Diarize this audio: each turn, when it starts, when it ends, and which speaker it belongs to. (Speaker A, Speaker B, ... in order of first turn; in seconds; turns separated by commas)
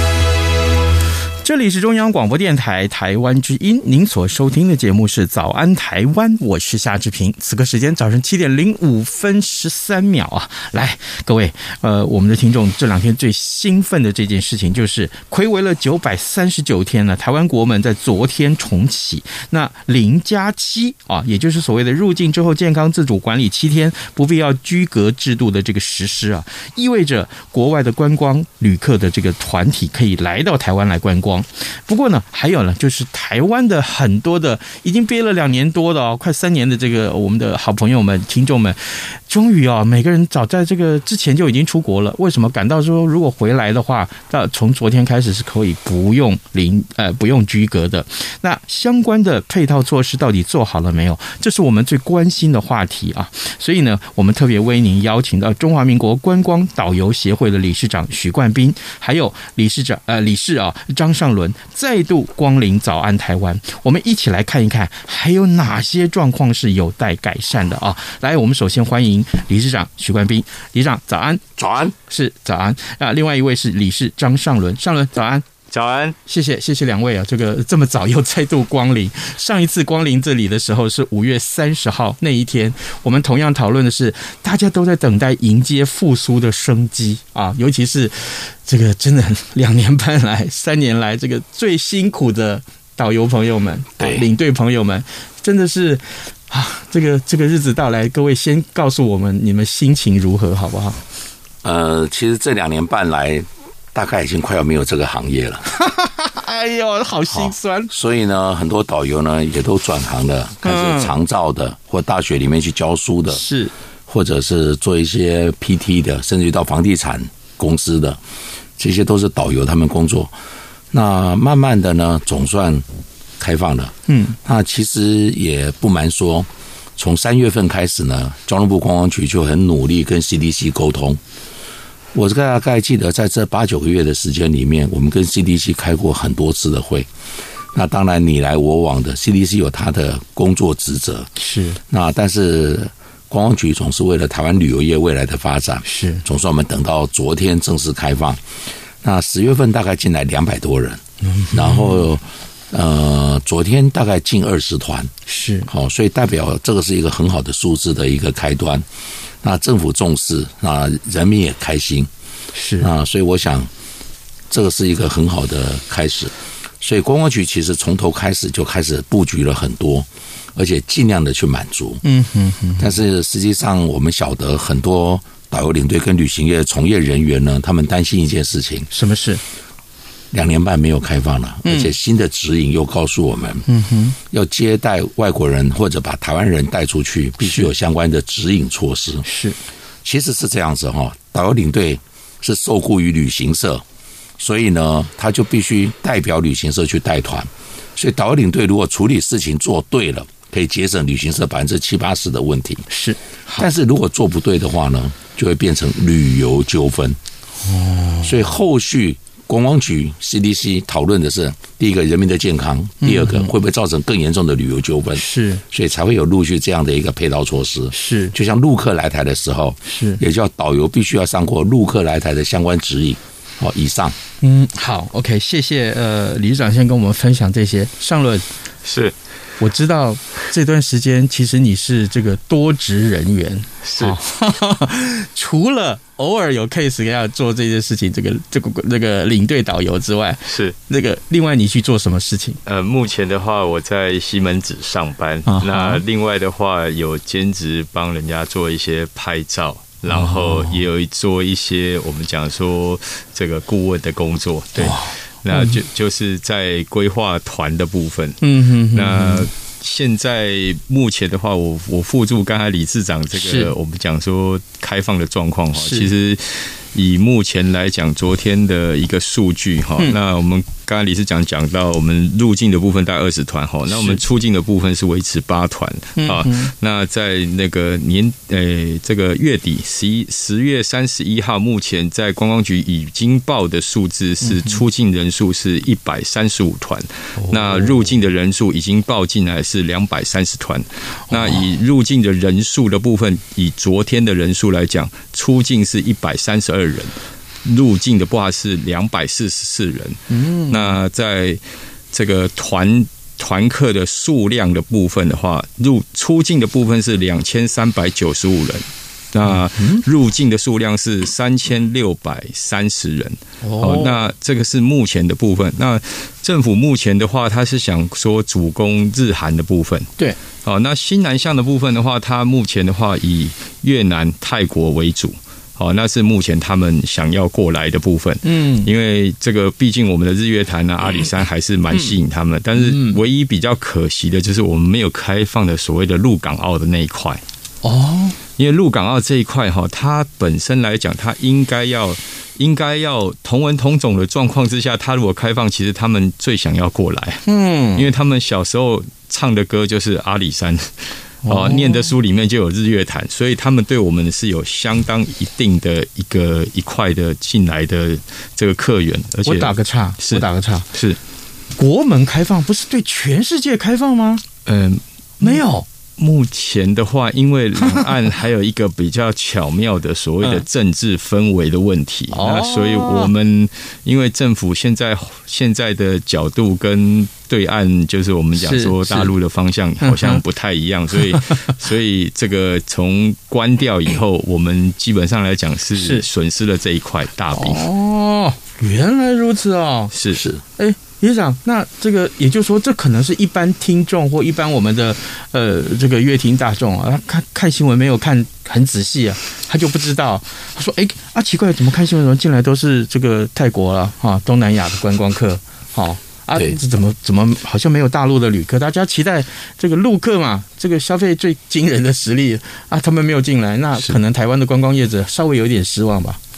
Speaker A: 1.4-71.4, Speaker B: 71.6-71.9, Speaker A: 72.1-75.5, Speaker C: 75.7-76.2, Speaker A: 76.2-101.0, Speaker B: 94.0-94.3, Speaker B: 101.6-105.7, Speaker A: 105.7-107.9, Speaker B: 107.3-113.4, Speaker A: 110.6-111.2, Speaker A: 113.3-113.7, Speaker B: 114.1-118.2, Speaker B: 118.8-120.3, Speaker B: 120.9-122.9, Speaker B: 123.4-131.2, Speaker A: 124.1-124.4, Speaker B: 132.1-137.1, Speaker B: 137.7-141.3, Speaker A: 141.4-141.8, Speaker B: 141.9-148.4, Speaker A: 145.8-146.2, Speaker B: 149.0-155.1, Speaker A: 151.2-152.1, Speaker A: 155.3-155.7, Speaker B: 155.7-158.9, Speaker B: 159.4-162.1, Speaker A: 162.5-162.9, Speaker B: 162.8-163.7, Speaker B: 164.5-172.0, Speaker A: 172.0-172.9, Speaker B: 172.8-178.9, Speaker A: 178.9-179.4, Speaker B: 180.3-183.7, Speaker A: 181.6-181.9, Speaker A: 183.7-184.2, Speaker B: 184.3-189.2, Speaker A: 187.4-187.7, Speaker A: 189.2-189.6, Speaker B: 190.1-193.8, Speaker B: 194.4-202.9, Speaker A: 202.9-203.7, Speaker B: 203.6-207.2, Speaker A: 207.6-208.4, Speaker B: 208.2-224.2, Speaker A: 213.0-213.5, Speaker A: 215.1-215.6, Speaker A: 217.9-218.3, Speaker A: 219.8-220.2, Speaker A: 224.4-228.4, Speaker C: 228.8-229.1, Speaker A: 229.6-242.6, Speaker C: 233.8-234.2, Speaker C: 240.5-240.8, Speaker C: 242.7-258.4, Speaker A: 245.5-246.0, Speaker A: 250.1-250.8, Speaker A: 254.8-255.8, Speaker A: 258.4-259.5, Speaker C: 258.9-301.6, Speaker A: 263.4-263.7, Speaker A: 265.8-266.1, Speaker A: 273.9-274.2, Speaker A: 276.2-276.7, Speaker A: 284.4-284.8, Speaker A: 287.4-288.1, Speaker A: 291.3-291.6, Speaker A: 300.3-301.0, Speaker C: 302.1-320.1, Speaker A: 309.4-310.0, Speaker A: 313.6-314.2, Speaker C: 320.6-337.4, Speaker A: 328.4-328.9, Speaker A: 332.8-333.2, Speaker A: 337.8-338.4, Speaker C: 338.6-347.4, Speaker A: 347.5-348.1, Speaker C: 347.9-361.2, Speaker A: 351.4-352.1, Speaker A: 359.5-360.9, Speaker A: 361.8-364.4, Speaker C: 364.6-365.6, Speaker A: 365.4-365.9, Speaker C: 366.2-387.8, Speaker A: 372.3-373.3, Speaker A: 378.6-379.3, Speaker A: 380.0-380.4, Speaker A: 385.9-386.2, Speaker A: 387.5-390.1, Speaker C: 390.1-390.4, Speaker B: 390.3-390.6, Speaker A: 390.8-416.4